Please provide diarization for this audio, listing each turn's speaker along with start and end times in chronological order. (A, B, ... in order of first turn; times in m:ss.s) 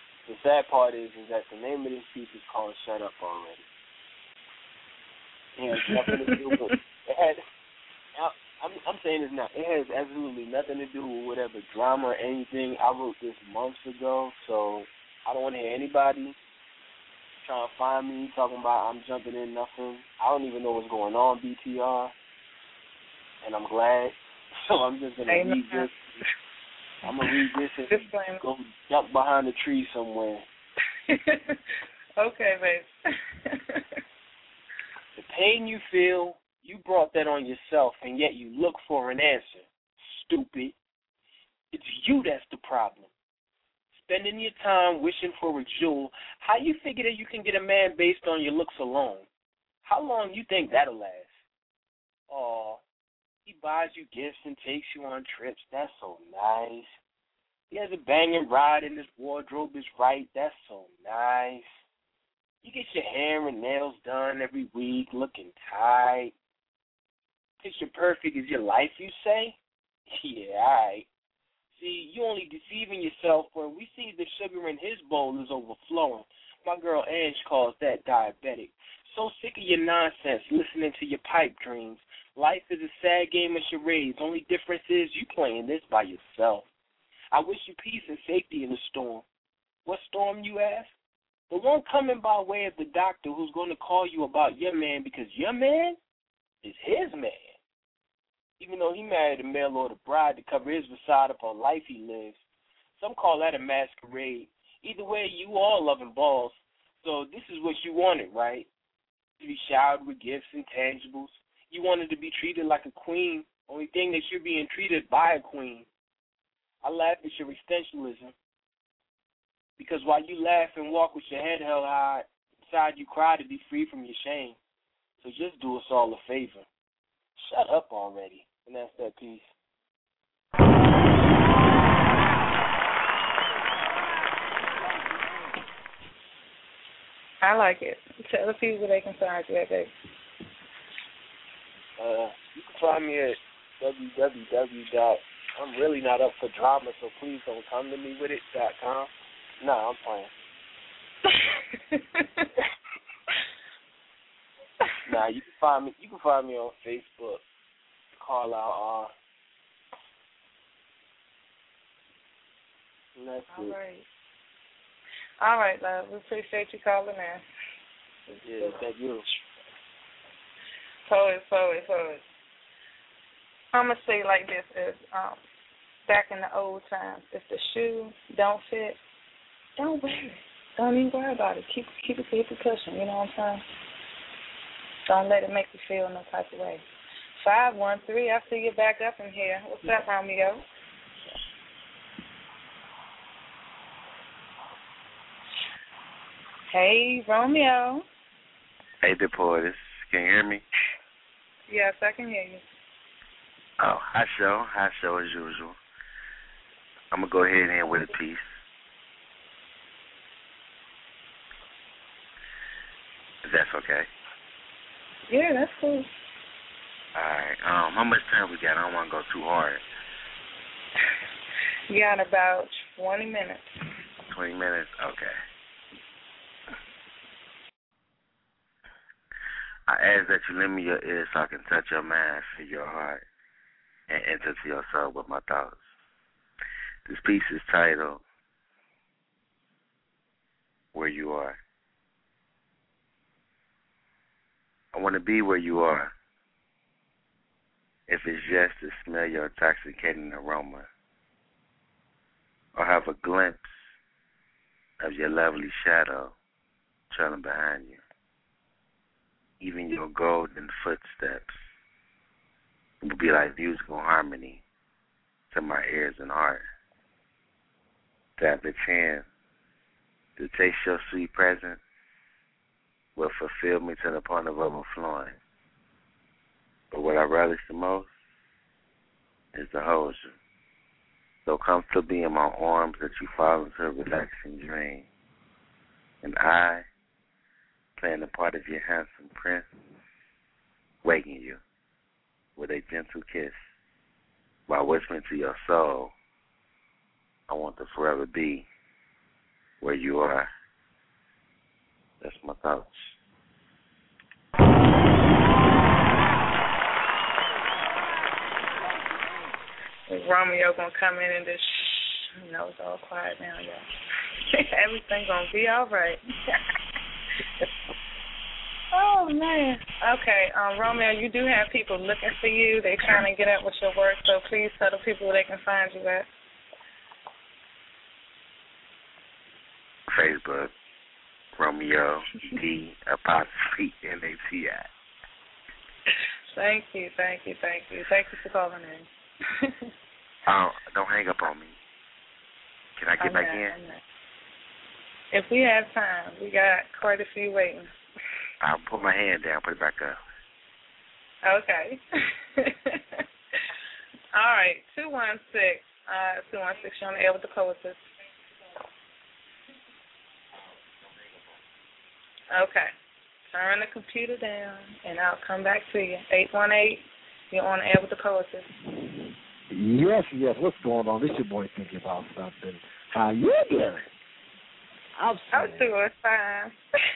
0:00.2-0:03.6 A
0:05.6-0:07.4 A
0:08.2-0:16.3 A
0:17.4-0:22.1 A
0:23.4-0:26.1 A
0:25.3-0:25.9 B
0:27.0-0:30.4 A
0:27.9-0:28.4 B
0:31.1-0:31.6 B
0:32.2-0:32.9 B
0:33.5-0:33.8 B
0:35.2-0:40.7 A
0:41.7-0:43.1 A
0:43.9-0:49.3 A
0:49.8-0:51.3 A
0:52.3-0:52.8 A
0:53.4-0:56.9 A
0:57.7-1:01.7 A
1:02.6-1:06.3 A
1:07.6-1:09.6 A
1:10.1-1:11.1 A
1:11.7-1:26.7 A
1:27.3-1:29.2 A
1:29.8-1:30.9 A
1:31.5-1:36.0 A
1:36.6-1:37.5 A
1:38.6-1:42.4 A
1:43.0-1:48.7 A
1:49.4-1:55.9 A
1:56.8-1:58.3 A
1:59.8-2:04.6 A
2:05.2-2:06.6 A
2:07.4-2:09.5 A
2:17.4-2:19.9 B
2:22.0-2:30.3 A
2:31.9-2:32.4 B
2:35.0-2:37.4 A
2:38.2-2:39.1 A
2:43.2-2:43.8 A
2:43.5-2:44.0 B
2:45.4-2:47.4 B
2:48.3-2:48.8 B
2:48.4-2:49.2 A
2:51.0-2:52.2 B
2:53.7-2:55.4 B
2:56.1-2:59.0 B
2:59.8-3:03.6 B
3:05.0-3:06.8 B
3:07.4-3:10.6 B
3:16.7-3:18.0 B
3:19.0-3:20.6 C
3:21.7-3:22.6 B
3:23.8-3:25.8 C
3:27.1-3:28.6 C
3:33.4-3:34.1 C
3:35.3-3:36.1 B
3:37.1-3:39.8 C
3:41.9-3:43.7 B
3:44.3-3:45.3 C
3:49.9-3:53.2 C
3:54.1-3:55.8 C
3:57.1-3:58.2 C
4:00.9-4:01.6 C
4:04.9-4:06.1 C
4:08.1-4:10.9 C
4:12.7-4:13.7 C
4:15.0-4:16.3 C
4:17.1-4:18.0 C
4:19.6-4:21.6 C
4:23.0-4:24.6 C
4:25.5-4:26.6 C
4:28.4-4:29.2 C
4:30.4-4:31.8 C
4:33.2-4:35.4 C
4:36.9-4:38.1 C
4:39.5-4:40.3 C
4:41.4-4:45.0 C
4:46.2-4:46.8 C
4:48.0-4:49.6 C
4:51.0-4:51.6 C
4:52.6-4:53.6 C
4:54.7-4:56.1 C
4:57.5-4:58.7 C
4:59.8-5:00.5 C
5:02.2-5:03.1 C
5:10.1-5:13.8 B
5:14.5-5:16.2 B
5:18.9-5:26.3 B
5:30.1-5:30.7 C
5:31.6-5:34.9 C
5:36.5-5:39.1 B
5:40.5-5:41.7 C
5:43.0-5:43.8 C
5:43.2-5:44.0 B
5:45.3-5:47.9 B
5:48.6-5:50.2 C
5:51.4-5:52.0 B
5:52.6-5:53.0 B
5:54.3-5:58.0 B
6:02.5-6:02.9 B
6:03.5-6:08.7 B
6:09.7-6:14.0 D
6:15.2-6:15.9 D
6:15.5-6:16.7 B